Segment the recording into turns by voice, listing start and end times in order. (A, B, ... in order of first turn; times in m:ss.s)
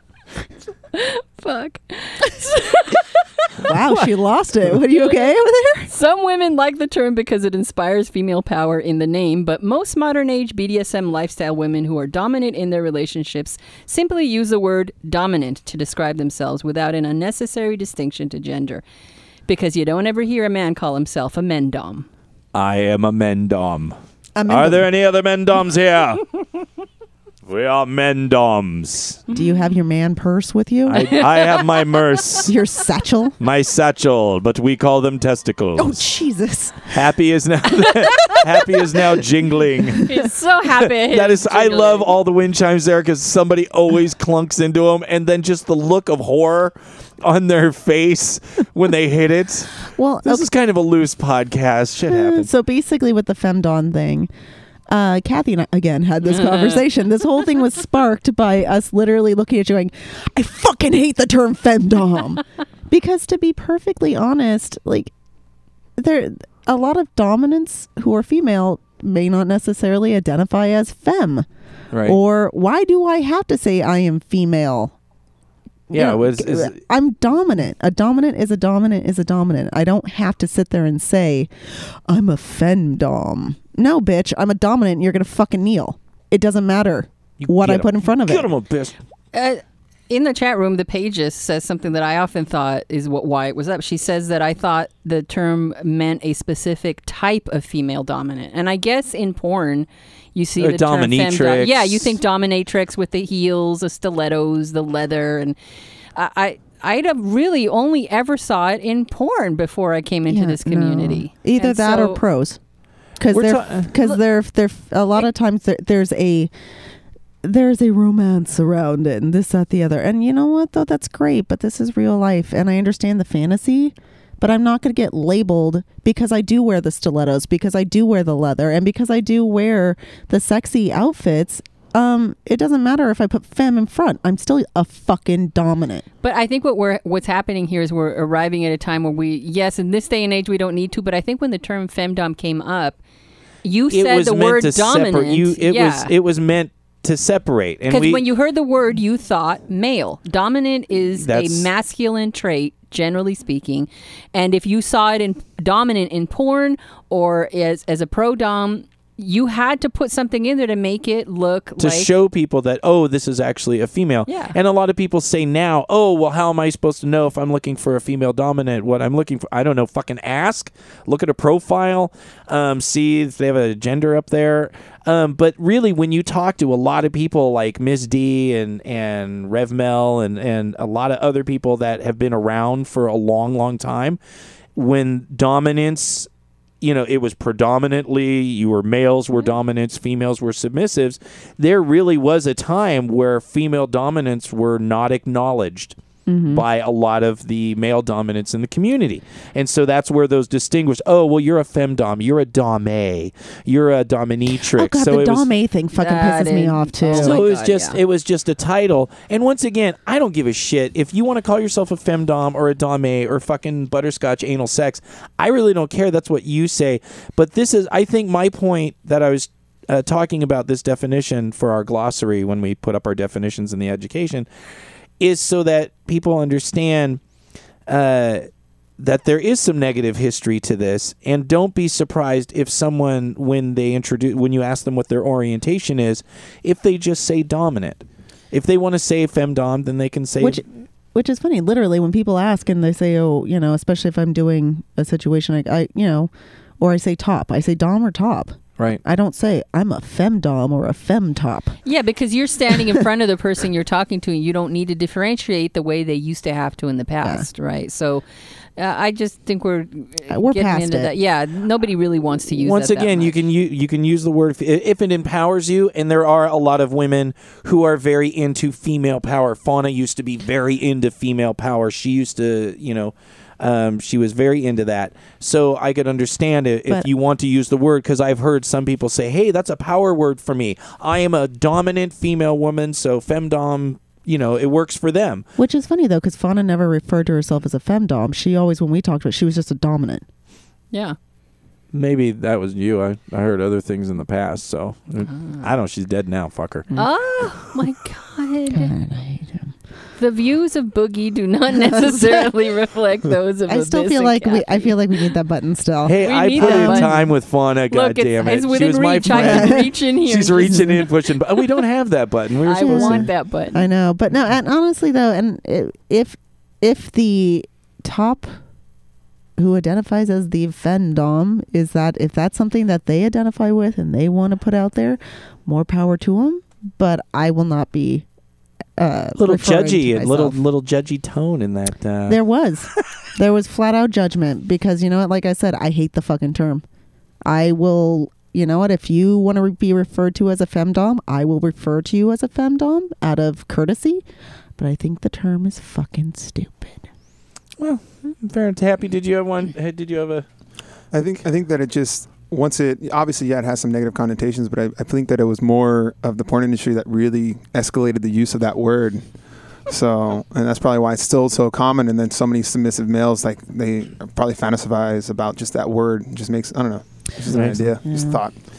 0:00.9-0:04.1 A
0:03.6-0:05.9 B
0:05.9-0:18.8 A
0:19.5-0:22.1 A
0:22.5-0:24.0 C
0:24.4-0:24.9 B
0:24.5-0:26.4 C
0:27.5-0:29.2 C
0:29.3-0:31.2 B
0:30.9-0:32.5 C
0:32.5-0:33.4 B
0:33.4-0:36.0 C
0:35.8-0:37.0 B
0:36.9-0:40.1 C
0:40.0-0:42.1 A
0:40.9-0:52.5 C
0:49.9-0:50.5 B
0:52.1-0:54.3 B
0:54.9-1:05.1 B
0:56.3-0:56.8 A
1:06.0-1:11.5 B
1:11.9-1:12.2 C
1:12.0-1:14.9 B
1:15.9-1:28.5 B
1:15.9-1:16.8 C
1:27.4-1:29.0 C
1:29.3-1:45.6 A
1:40.6-1:42.2 C
1:46.2-1:52.2 A
1:50.3-1:52.6 B
1:53.2-1:56.5 B
1:53.3-1:53.9 C
1:57.4-2:16.0 B
2:16.2-2:23.0 A
2:23.6-2:26.1 A
2:23.9-2:28.2 C
2:27.9-2:42.1 A
2:31.2-2:31.7 C
2:41.8-3:04.2 C
2:44.3-2:44.6 A
3:04.8-3:06.3 C
3:06.8-3:16.0 C
3:16.3-3:16.6 B
3:16.5-3:25.5 C
3:24.7-3:27.4 B
3:26.0-3:28.0 A
3:27.2-3:44.5 C
3:45.2-3:47.2 C
3:47.9-3:48.5 C
3:49.0-4:00.6 C
4:00.4-4:11.8 B
4:11.8-4:18.2 A
4:17.2-4:17.5 B
4:18.8-4:23.4 A
4:20.3-4:21.1 B
4:22.5-4:45.4 C
4:45.6-4:50.2 B
4:51.9-4:56.9 C
4:57.0-4:58.9 A
4:58.7-4:59.7 B
5:00.2-5:05.0 A
5:01.8-5:02.5 B
5:03.7-5:07.3 B
5:06.0-5:13.3 C
5:06.2-5:07.2 A
5:07.9-5:11.1 A
5:09.3-5:09.9 B
5:12.7-5:13.8 A
5:12.9-5:18.5 B
5:19.6-5:28.2 B
5:29.0-5:30.6 B
5:29.4-5:32.4 C
5:32.3-5:36.8 B
5:37.5-5:44.2 B
5:44.8-5:47.1 B
5:47.8-5:50.5 C
5:51.1-5:59.2 D
5:59.9-6:08.5 D
6:07.4-6:07.9 C
6:08.0-6:08.4 B